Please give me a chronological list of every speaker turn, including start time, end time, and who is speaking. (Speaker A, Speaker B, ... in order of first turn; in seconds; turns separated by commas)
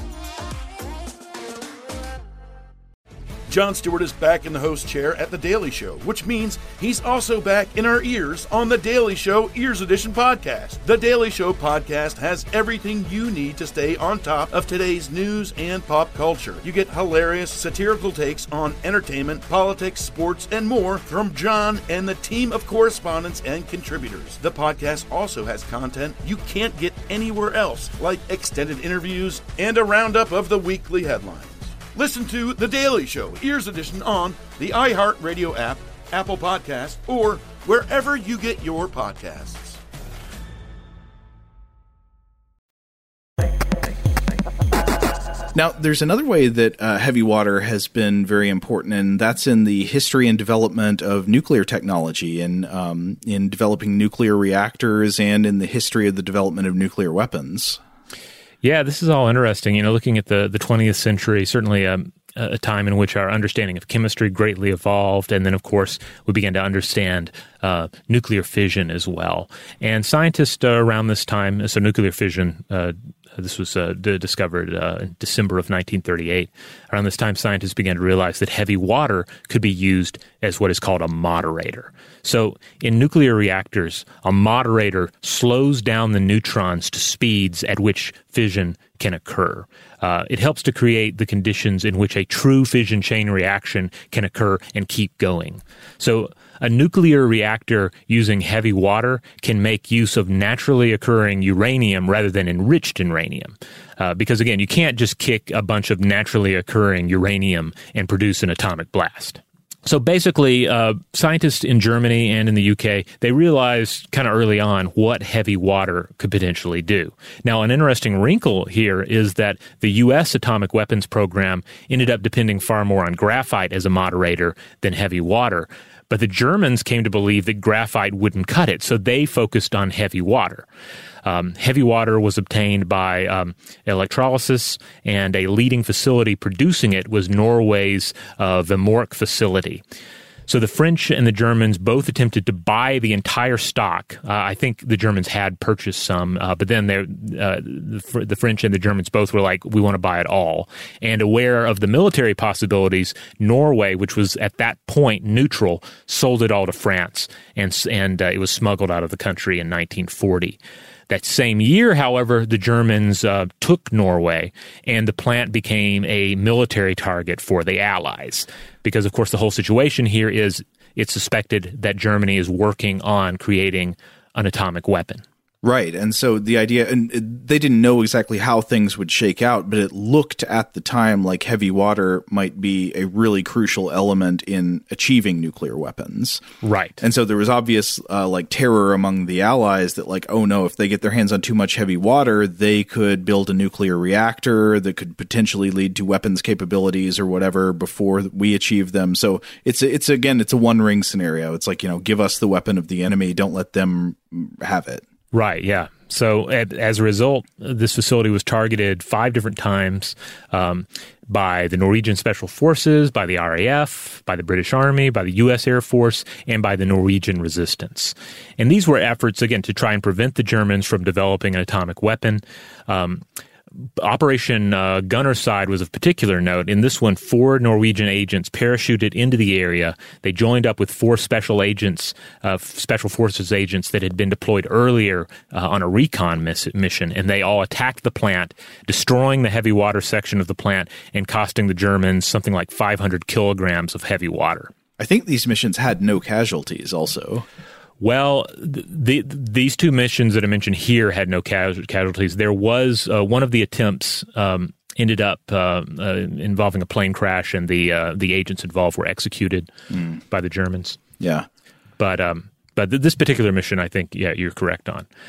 Speaker A: 3.5-39.8, Speaker B: 45.5-57.8, Speaker C: 58.6-130.7, Speaker C: 131.2-139.8, Speaker C: 140.5-160.6, Speaker C: 161.1-175.2, Speaker B: 175.6-186.4, Speaker C: 186.6-187.0, Speaker B: 187.0-205.0, Speaker C: 205.3-223.2, Speaker C: 224.0-244.7, Speaker B: 245.0-247.5, Speaker C: 248.0-259.7, Speaker B: 259.9-260.2, Speaker C: 260.3-261.0, Speaker B: 261.2-261.5, Speaker C: 262.0-265.1